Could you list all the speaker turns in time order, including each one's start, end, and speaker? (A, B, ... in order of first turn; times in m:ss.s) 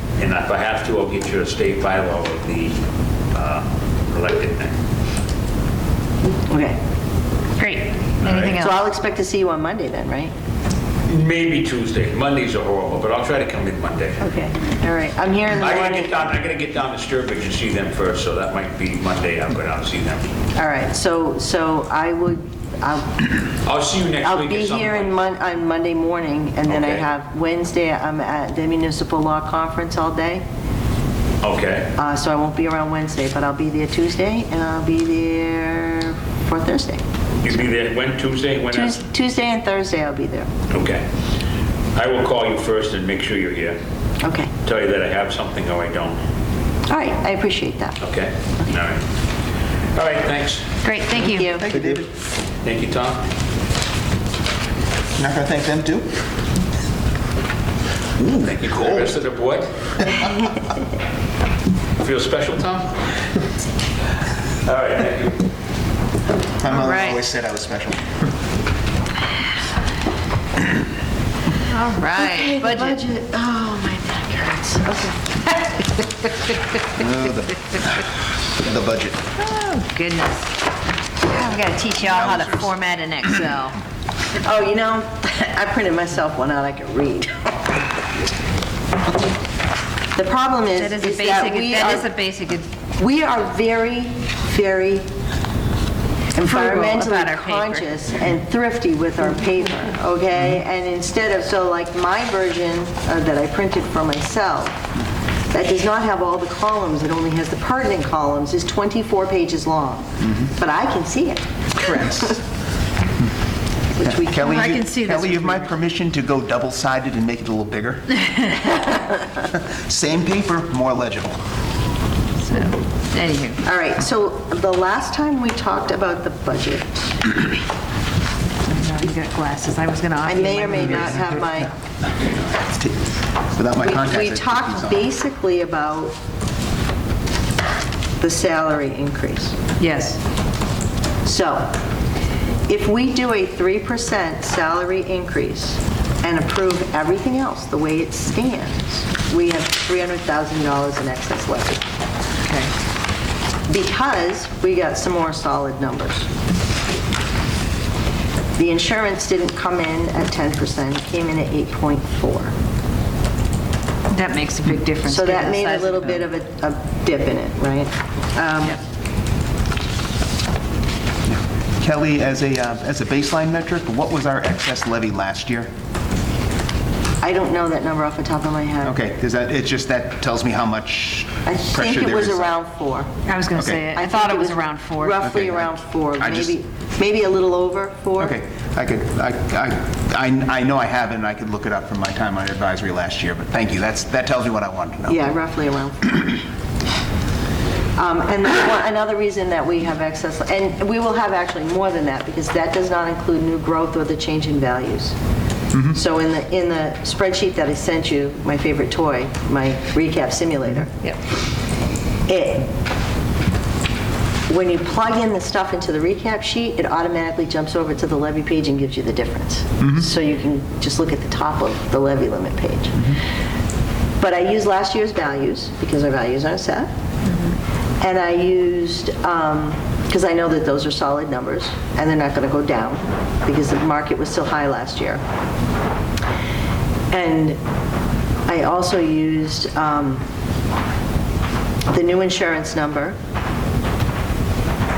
0:00.2-0:02.8 A
0:03.3-0:04.8 A
0:06.5-0:06.8 B
0:07.6-0:08.8 C
0:08.2-0:08.6 A
0:08.6-0:10.3 B
0:11.1-0:14.3 A
0:14.2-0:16.3 B
0:15.5-0:20.3 A
0:20.6-0:23.3 B
0:23.6-0:25.1 A
0:24.2-0:30.4 B
0:26.7-0:27.0 A
0:31.4-0:31.9 A
0:32.0-0:37.0 B
0:37.4-0:39.0 A
0:38.7-0:40.5 B
0:40.7-0:41.1 A
0:42.0-0:43.8 A
0:44.2-0:44.5 B
0:44.6-0:46.2 A
0:46.9-0:48.0 B
0:48.0-0:49.0 A
0:50.0-0:50.7 A
0:50.8-0:51.6 C
0:51.1-0:51.7 B
0:51.5-0:52.1 D
0:52.6-0:53.2 A
0:55.2-0:56.2 D
0:58.2-0:59.1 D
0:58.2-0:59.9 A
1:02.0-1:03.2 A
1:04.6-1:05.5 A
1:06.6-1:08.0 D
1:06.6-1:07.2 C
1:11.6-1:13.0 C
1:12.1-1:15.5 B
1:16.9-1:19.2 D
1:19.4-1:20.6 C
1:21.2-1:23.8 C
1:21.9-1:22.8 D
1:24.4-1:27.9 B
1:30.2-1:32.1 B
1:30.8-1:32.7 C
1:33.0-1:35.0 B
1:36.4-1:44.8 B
1:36.4-1:37.9 C
1:45.5-1:52.4 B
1:51.8-1:52.4 D
1:54.0-1:54.6 B
1:54.0-1:58.3 D
1:54.4-1:55.7 C
1:59.4-2:01.4 D
2:02.4-2:03.6 C
2:03.6-2:07.3 B
2:08.7-2:11.3 C
2:10.2-2:11.7 B
2:12.2-2:15.1 D
2:13.8-2:16.2 B
2:18.2-2:19.6 B
2:19.8-2:20.2 C
2:21.2-2:21.7 B
2:22.7-2:31.8 B
2:32.5-2:32.7 C
2:33.7-2:36.3 B
2:38.6-2:42.5 B
2:44.1-2:46.3 C
2:45.0-2:48.8 B
2:51.3-2:55.7 D
2:57.2-2:59.0 B
2:58.8-3:02.5 D
3:01.5-3:03.2 B
3:03.3-3:05.3 C
3:03.5-3:03.8 D
3:03.9-3:08.4 B
3:05.2-3:06.6 D
3:08.2-3:15.2 D
3:15.1-3:16.2 B
3:18.0-3:25.2 B
3:25.9-3:30.9 B
3:32.3-3:32.7 B
3:34.5-3:43.2 B
3:44.2-3:46.9 B
3:47.3-3:47.6 C
3:48.0-3:55.2 B
3:57.1-3:57.6 B
3:58.5-4:00.2 B
4:01.9-4:03.2 B